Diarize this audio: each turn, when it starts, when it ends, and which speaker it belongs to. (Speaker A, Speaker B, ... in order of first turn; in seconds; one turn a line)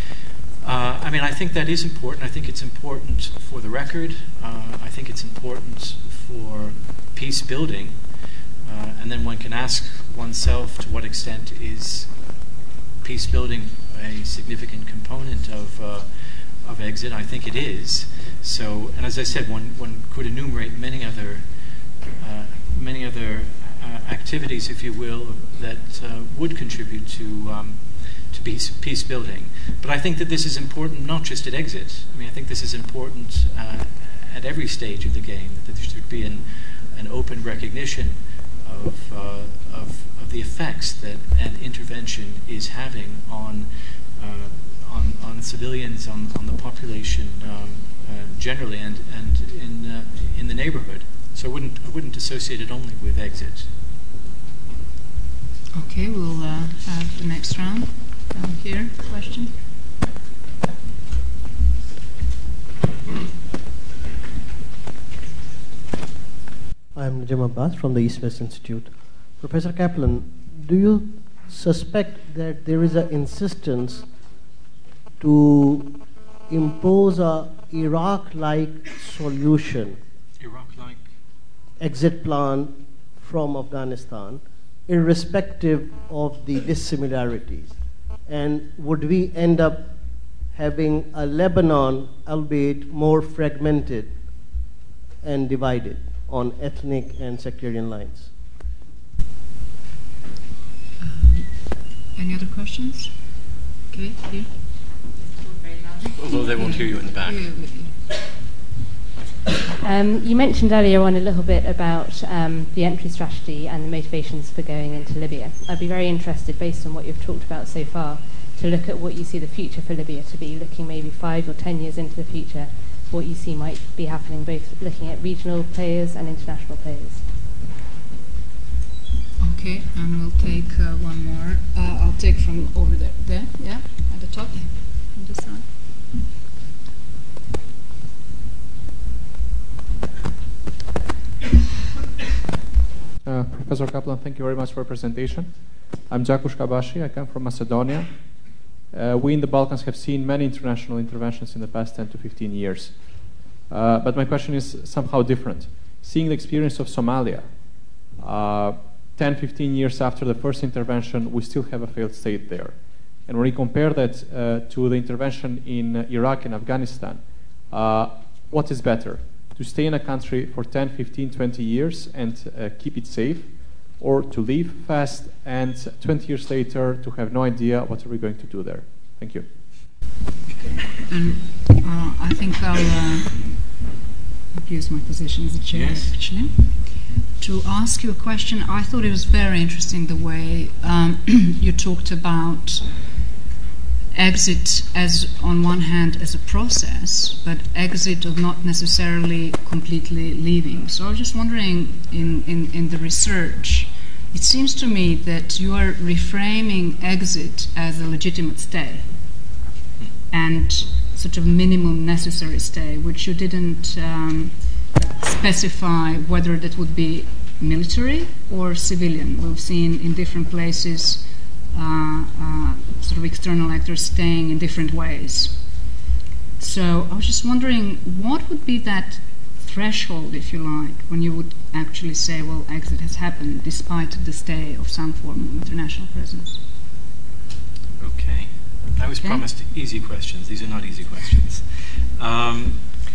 Speaker A: 0.6-8.0
Speaker A: 8.6-12.1
Speaker A: 13.0-16.1
Speaker A: 16.6-21.4
Speaker A: 22.2-53.7
Speaker B: 55.7-59.5
Speaker C: 67.0-74.1
Speaker C: 75.2-76.0
Speaker C: 76.5-80.0
Speaker A: 80.4-81.0
Speaker C: 81.8-89.9
Speaker C: 90.5-94.2
Speaker C: 95.2-98.3
Speaker B: 101.0-103.2
Speaker B: 103.9-104.5
Speaker B: 105.6-108.0
Speaker A: 106.1-107.5
Speaker D: 109.8-127.2
Speaker B: 129.4-135.7
Speaker E: 143.2-179.4
Speaker B: 180.6-183.7
Speaker B: 184.5-193.0
Speaker A: 185.7-186.2
Speaker B: 194.1-209.1
Speaker B: 210.3-225.9
Speaker B: 226.6-236.6
Speaker A: 238.0-242.8